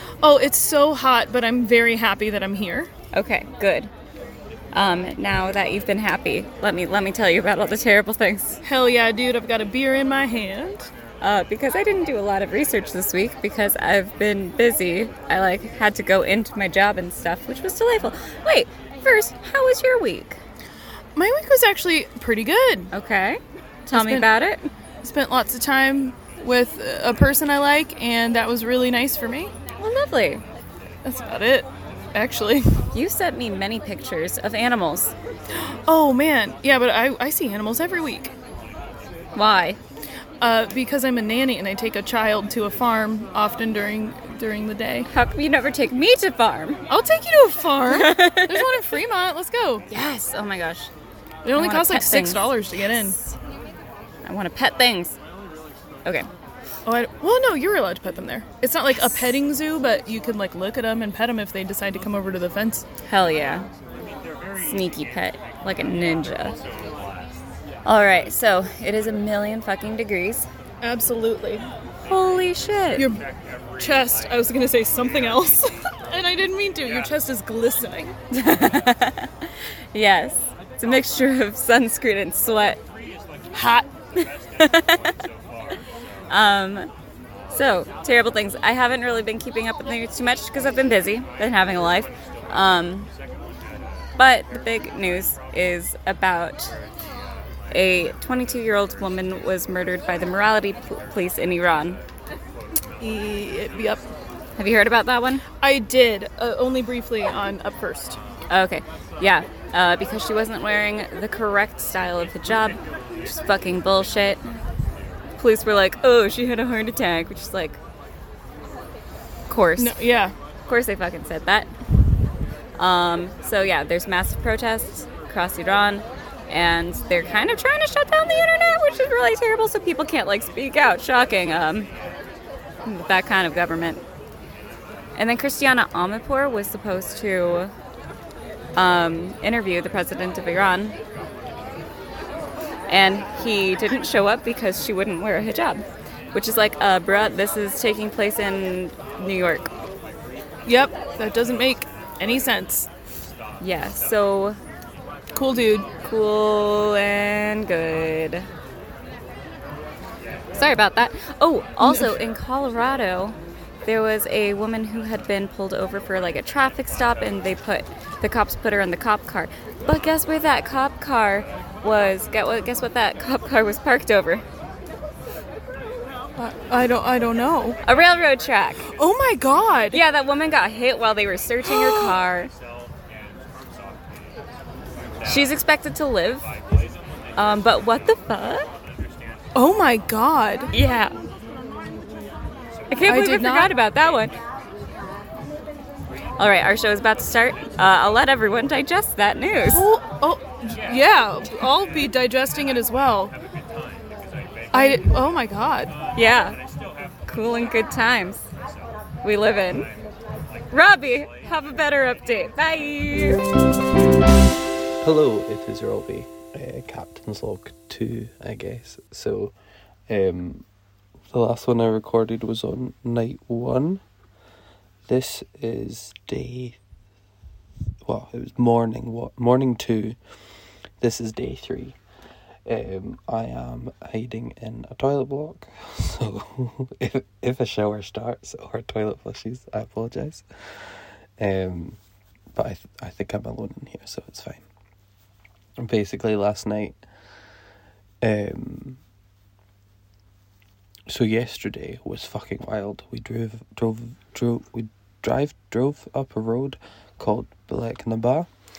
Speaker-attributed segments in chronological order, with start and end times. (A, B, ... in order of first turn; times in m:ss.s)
0:00.2-0:02.9 A
0:03.1-0:03.9 B
0:04.7-0:08.6 B
0:08.6-0:10.9 A
0:11.2-0:20.4 B
0:21.2-0:22.9 A
0:22.9-0:24.7 B
0:23.9-0:24.3 A
0:25.0-0:29.5 A
0:29.8-0:30.4 B
0:31.0-0:32.9 A
0:32.9-0:35.2 B
0:35.5-0:38.3 A
0:39.4-0:39.8 B
0:40.4-0:45.1 A
0:45.1-0:46.8 B
0:46.9-0:49.8 A
0:47.9-0:48.8 B
0:49.9-0:50.9 B
0:51.4-0:53.2 A
0:51.6-0:52.5 B
0:54.2-0:55.2 B
0:56.9-1:02.8 A
1:03.1-1:03.7 B
1:04.6-1:06.6 B
1:07.8-1:10.5 B
1:10.8-1:11.6 A
1:12.1-1:13.1 B
1:13.0-1:13.2 A
1:13.8-1:18.1 A
1:18.3-1:22.8 B
1:23.5-1:23.9 A
1:24.2-1:25.3 B
1:26.3-1:26.9 B
1:27.5-1:33.1 B
1:34.2-1:36.7 B
1:37.7-1:42.0 B
1:43.0-1:44.0 A
1:44.6-1:45.4 B
1:45.6-1:48.2 A
1:48.5-1:54.4 B
1:55.4-1:57.8 B
1:59.5-2:00.0 B
1:59.8-2:00.3 A
2:00.7-2:01.7 B
2:02.8-2:11.9 B
2:12.8-2:14.0 B
2:15.2-2:17.7 B
2:18.8-2:21.0 B
2:22.9-2:29.7 B
2:30.7-2:32.9 A
2:33.6-2:34.6 B
2:35.3-2:35.9 A
2:36.0-2:38.5 B
2:40.6-2:54.4 B
2:41.8-2:42.1 A
2:56.4-2:57.8 A
2:57.8-2:58.9 B
2:58.9-3:00.0 A
2:59.9-3:02.5 B
3:01.7-3:02.1 A
3:05.2-3:06.5 B
3:07.4-3:08.7 B
3:09.6-3:10.7 A
3:10.7-3:11.1 B
3:12.9-3:14.4 B
3:13.1-3:13.7 A
3:16.4-3:19.9 B
3:19.7-3:23.3 A
3:24.7-3:25.9 A
3:26.2-3:26.6 B
3:27.3-3:28.5 B
3:29.2-3:29.9 B
3:30.7-3:33.4 B
3:35.0-3:39.5 C
3:40.1-3:40.6 C
3:41.3-3:44.0 C
3:45.1-3:46.8 C
3:48.0-3:50.2 C
3:51.0-3:52.0 C
3:52.7-4:02.0 C
4:02.5-4:04.6 C
4:05.8-4:07.0 C
4:08.2-4:09.0 C
4:11.1-4:18.5 C